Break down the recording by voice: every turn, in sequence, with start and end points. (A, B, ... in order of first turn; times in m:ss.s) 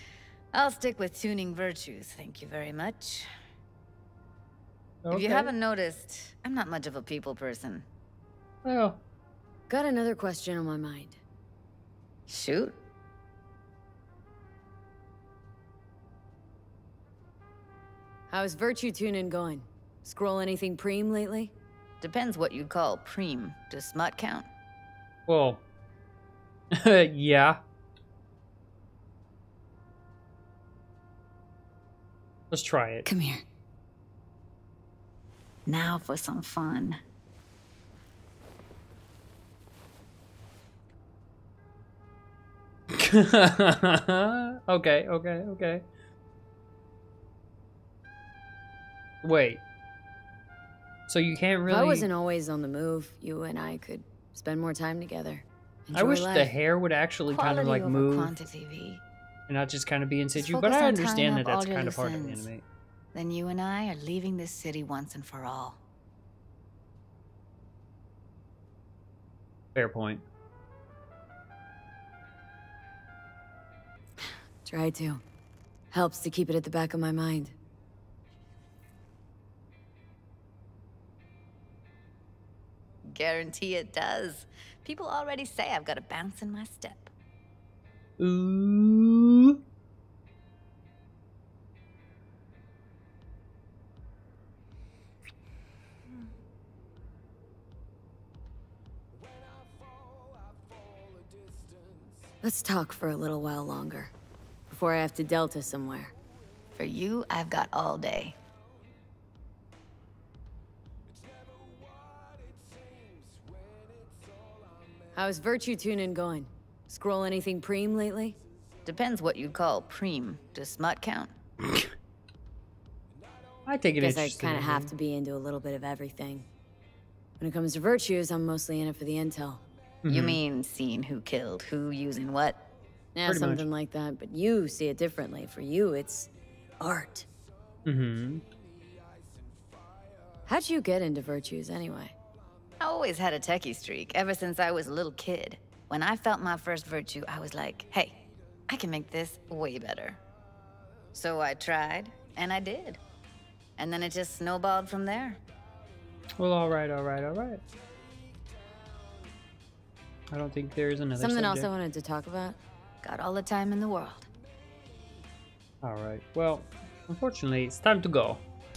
0:00.5-0:03.3 A
0:05.0-0:05.5 B
0:05.1-0:07.8 A
0:08.6-0:09.0 B
0:09.7-0:11.2 C
0:12.3-0:12.8 A
0:18.3-0:21.5 C
0:22.0-0:24.5 A
0:25.3-0:25.6 B
0:26.7-0:27.6 B
0:32.5-0:33.0 B
0:33.0-0:33.4 C
0:35.7-0:37.0 A
0:43.0-0:45.8 B
0:49.2-0:49.6 B
0:51.1-0:52.1 B
0:51.7-0:56.5 C
0:55.9-0:58.3 B
0:57.3-0:59.0 A
0:59.5-1:02.6 B
1:00.3-1:02.5 A
1:03.1-1:05.8 A
1:09.7-1:10.2 B
1:14.6-1:15.2 C
1:15.9-1:17.5 C
1:23.1-1:27.1 A
1:28.2-1:29.6 B
1:42.4-1:44.1 C
1:44.7-1:46.1 C
1:46.8-1:48.3 A
1:55.1-1:58.4 C
1:58.8-2:01.3 A
2:03.6-2:04.9 B
2:04.0-2:06.5 C
2:07.4-2:09.6 C
2:10.0-2:10.4 B
2:10.1-2:12.6 A
2:13.1-2:17.3 C
2:13.3-2:13.7 B
2:17.8-2:18.4 B
2:20.4-2:22.1 C
2:22.8-2:30.2 A
2:31.1-2:33.0 A
2:33.8-2:35.4 A
2:36.4-2:37.6 B
2:40.3-2:41.7 B
2:41.2-2:42.6 C
2:43.0-2:44.3 A
2:45.8-2:48.4 B